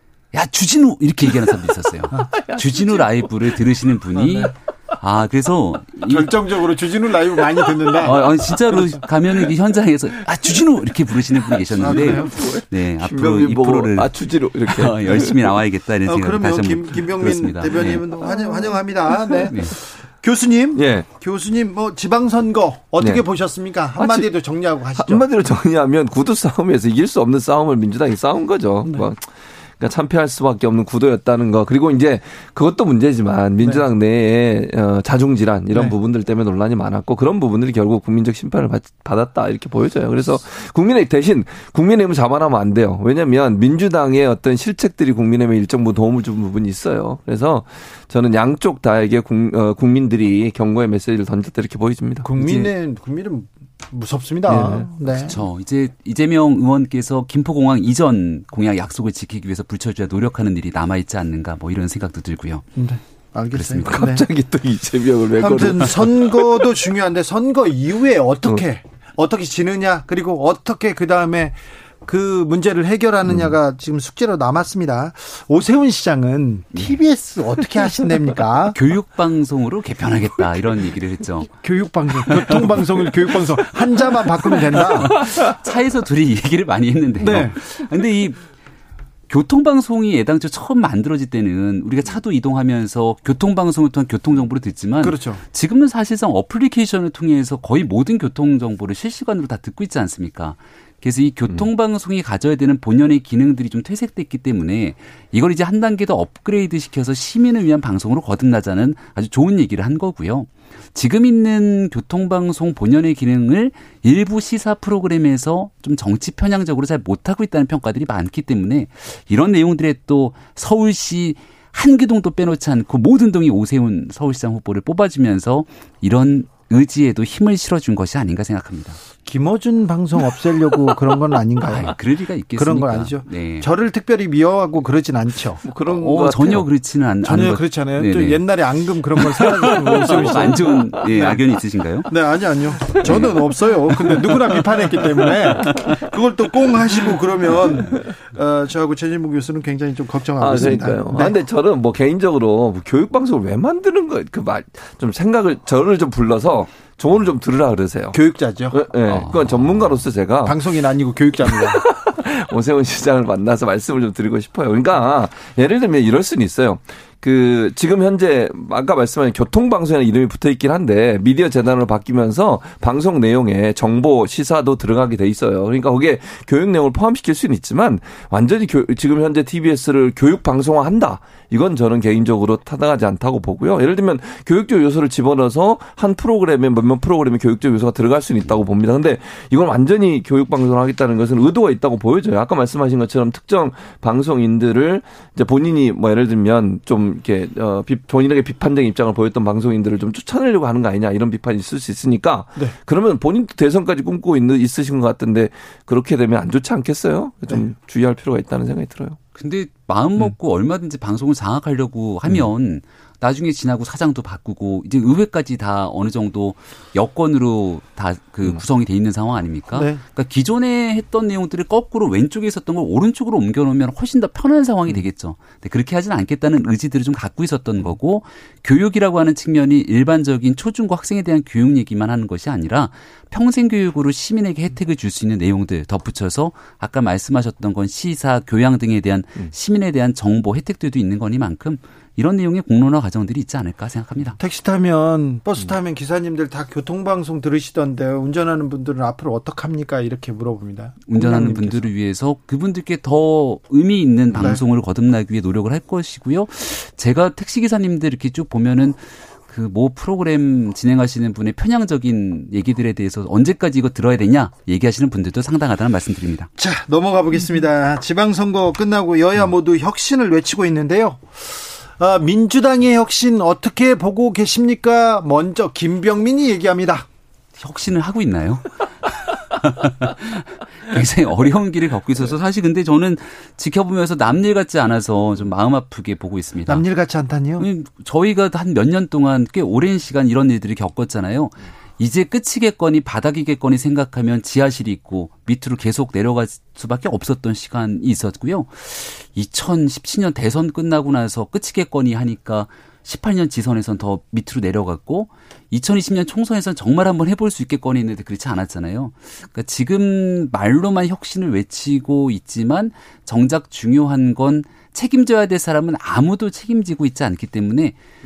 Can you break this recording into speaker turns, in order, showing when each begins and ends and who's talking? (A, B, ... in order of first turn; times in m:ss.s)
0:00.3-0:06.6 A
0:02.4-0:03.0 B
0:06.0-0:08.8 C
0:08.0-0:18.0 A
0:11.8-0:12.4 C
0:11.8-0:15.5 B
0:16.0-0:25.3 C
0:19.4-0:19.7 A
0:20.7-0:21.1 B
0:24.0-0:24.3 B
0:25.0-0:52.7 B
0:52.2-0:55.4 C
0:54.5-0:54.8 B
0:55.2-1:02.6 A
1:02.8-1:04.2 C
1:03.5-1:04.0 A
1:03.9-1:06.6 B
1:05.4-1:18.8 C
1:18.7-1:21.5 A
1:21.6-1:25.2 C
1:22.3-1:23.3 A
1:24.1-1:28.4 A
1:27.2-1:27.6 C
1:29.3-2:09.0 A
1:35.0-1:35.4 C
2:09.2-2:12.0 C
2:11.6-2:13.7 A
2:12.6-2:15.6 C
2:15.6-2:16.6 B
2:15.8-2:18.4 A
2:17.2-2:21.4 C
2:19.2-2:22.1 A
2:22.0-2:31.4 C
2:22.9-2:23.4 A
2:23.9-2:25.0 A
2:30.4-2:38.2 B
2:38.1-2:38.8 C
2:38.7-2:40.6 B
2:39.1-2:39.6 A
2:40.4-2:41.8 C
2:41.5-3:29.2 B
3:29.3-4:04.4 A
3:39.7-3:40.0 C
4:04.4-4:11.9 C
4:11.1-4:26.5 A
4:14.3-4:14.6 C
4:26.6-4:37.1 C
4:37.6-4:46.8 A
4:46.7-4:47.7 C
4:47.6-5:18.0 A